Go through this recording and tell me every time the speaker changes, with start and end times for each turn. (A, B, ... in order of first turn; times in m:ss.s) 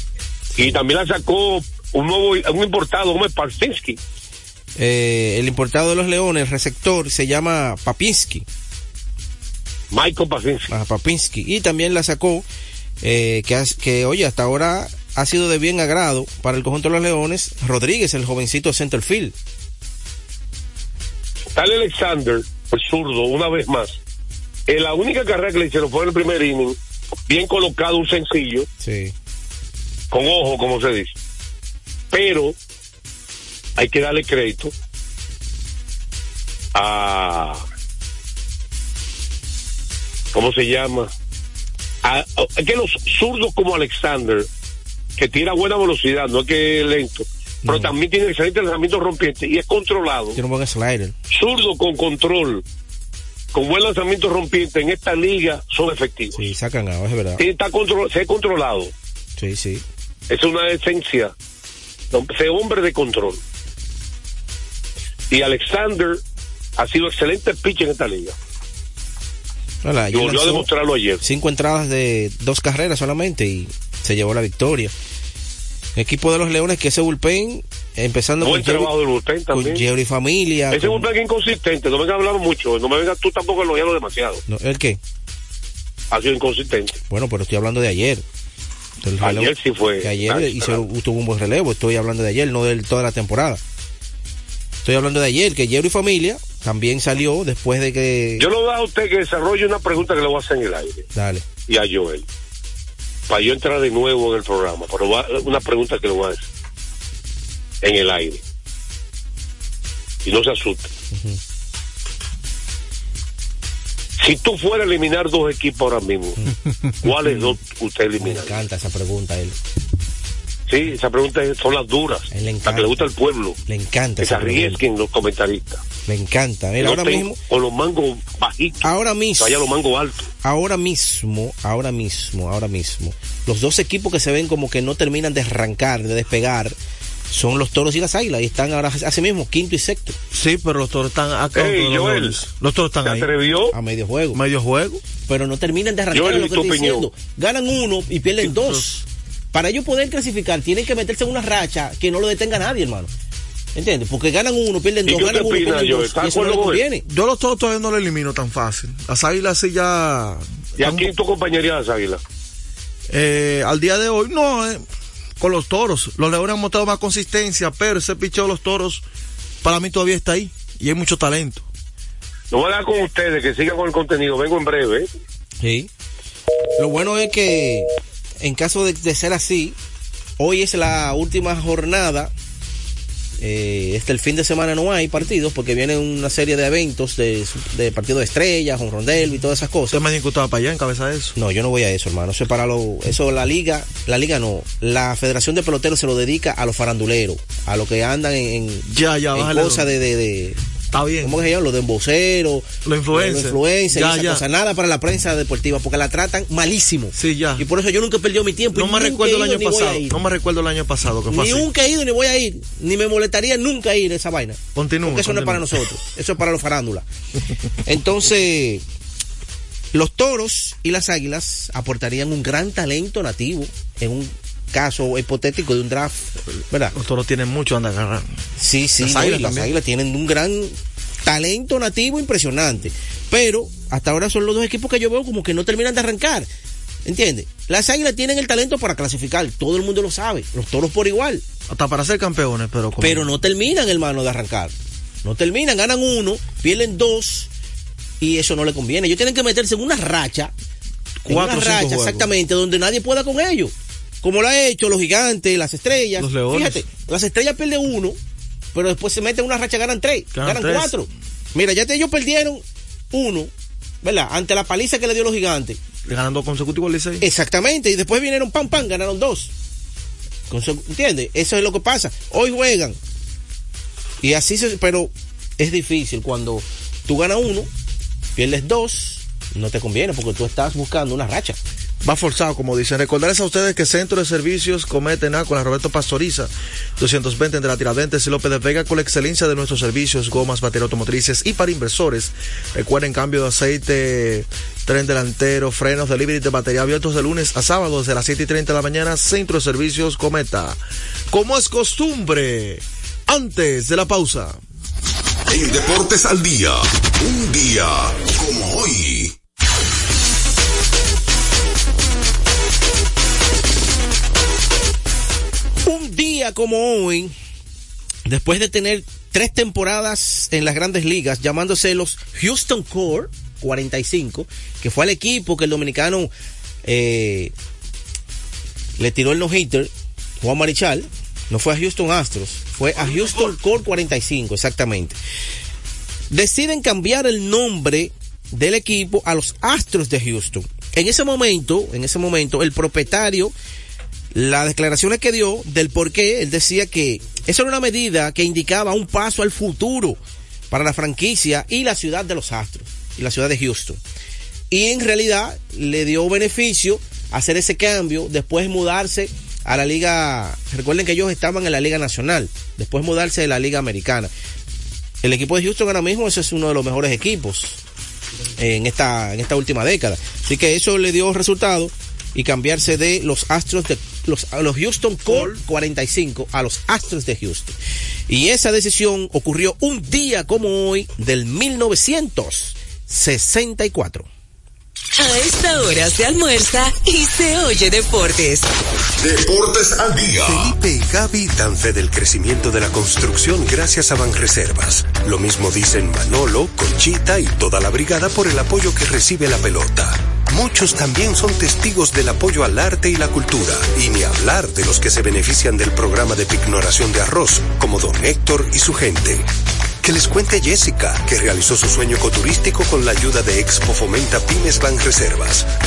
0:00.6-0:04.0 A
0:04.8-0:08.4 B
0:09.9-0:10.7 A
0:10.7-0:12.4 B
0:13.0-0:19.3 B
0:21.6-0:24.0 A
0:24.7-0:26.8 A
0:27.3-0:28.7 A
0:28.8-0:29.1 B
0:30.1-0:31.2 A
0:32.1-0:32.5 A
0:33.8-0:34.7 A
0:36.7-0:37.6 A
0:40.3-0:41.1 A
0:42.0-0:44.5 A
0:45.2-0:50.4 A
0:47.6-0:47.9 B
0:50.3-0:51.1 B
0:51.3-0:52.6 A
0:53.5-0:56.4 A
0:56.4-0:57.4 B
0:57.4-0:58.9 A
0:59.4-0:59.8 B
1:00.3-1:01.3 A
1:02.1-1:03.4 A
1:05.3-1:06.2 A
1:06.8-1:08.3 A
1:09.8-1:10.7 B
1:10.1-1:11.2 A
1:11.2-1:14.9 B
1:16.0-1:18.9 B
1:18.4-1:19.8 A
1:19.5-1:21.0 B
1:20.7-1:24.4 A
1:24.5-1:25.0 B
1:26.1-1:27.0 A
1:27.1-1:28.2 B
1:29.0-1:33.6 B
1:29.2-1:30.8 A
1:34.8-1:38.4 B
1:38.4-1:41.0 A
1:41.1-1:41.4 B
1:41.7-1:42.2 A
1:43.3-1:46.4 A
1:47.8-1:48.4 A
1:50.2-1:50.9 A
1:51.1-1:51.4 B
1:54.2-1:56.4 A
1:56.4-1:57.5 B
1:57.0-1:58.6 A
1:58.2-1:59.6 B
2:00.7-2:03.6 A
2:02.3-2:02.9 B
2:03.7-2:04.8 B
2:04.2-2:05.8 A
2:06.1-2:07.4 B
2:06.8-2:08.9 A
2:08.8-2:09.6 B
2:09.4-2:10.3 A
2:10.4-2:16.8 B
2:17.3-2:20.2 B
2:20.3-2:23.3 C
2:21.5-2:22.4 A
2:23.0-2:23.7 A
2:23.7-2:24.4 B
2:24.3-2:25.0 C
2:25.3-2:33.1 B
2:26.1-2:27.1 A
2:28.4-2:28.8 C
2:33.8-2:37.0 B
2:35.0-2:36.8 A
2:37.0-2:41.1 C
2:40.8-2:42.2 A
2:43.1-2:44.8 C
2:45.4-2:49.0 C
2:49.6-2:51.6 C
2:52.5-2:55.1 A
2:55.6-2:55.9 B
2:56.8-2:57.9 B
2:58.4-2:59.8 B
3:00.4-3:02.3 B
3:03.4-3:10.0 B
3:09.9-3:11.3 C
3:11.4-3:20.6 B
3:18.9-3:19.9 C
3:20.9-3:21.4 C
3:21.2-3:30.2 B
3:22.8-3:24.4 C
3:27.1-3:27.6 C
3:28.7-3:31.7 C
3:31.3-3:37.0 B
3:34.7-3:35.8 C
3:37.8-3:38.8 B
3:39.9-3:46.9 B
3:46.9-3:48.3 C
3:48.6-3:50.7 B
3:49.0-3:49.7 C
3:51.2-3:56.5 B
3:57.0-4:01.4 B
4:01.7-4:03.3 C
4:03.0-4:04.7 B
4:05.2-4:07.5 B
4:08.2-4:10.5 B
4:11.2-4:12.3 C
4:11.3-4:13.7 B
4:14.2-4:18.2 B
4:16.2-4:16.8 C
4:18.7-4:23.5 B
4:20.3-4:20.9 C
4:24.0-4:25.8 B
4:26.0-4:27.2 C
4:27.2-4:29.5 B
4:30.5-4:33.0 B
4:34.2-4:37.7 B
4:38.4-4:41.6 B
4:42.0-5:00.8 C
5:01.3-5:04.6 C
5:05.5-5:09.3 D
5:15.8-5:17.3 B
5:18.3-5:26.3 B
5:26.8-5:27.5 B
5:29.0-5:35.2 B
5:36.3-5:43.5 B
5:44.3-5:50.2 B
5:50.7-5:54.0 B
5:54.7-6:04.3 B
6:05.2-6:07.8 B
6:08.6-6:17.8 B
6:15.3-6:15.6 C
6:18.3-6:24.3 B
6:25.2-6:28.7 E
6:29.2-6:30.8 D
6:30.4-6:49.5 F
6:50.0-6:55.7 F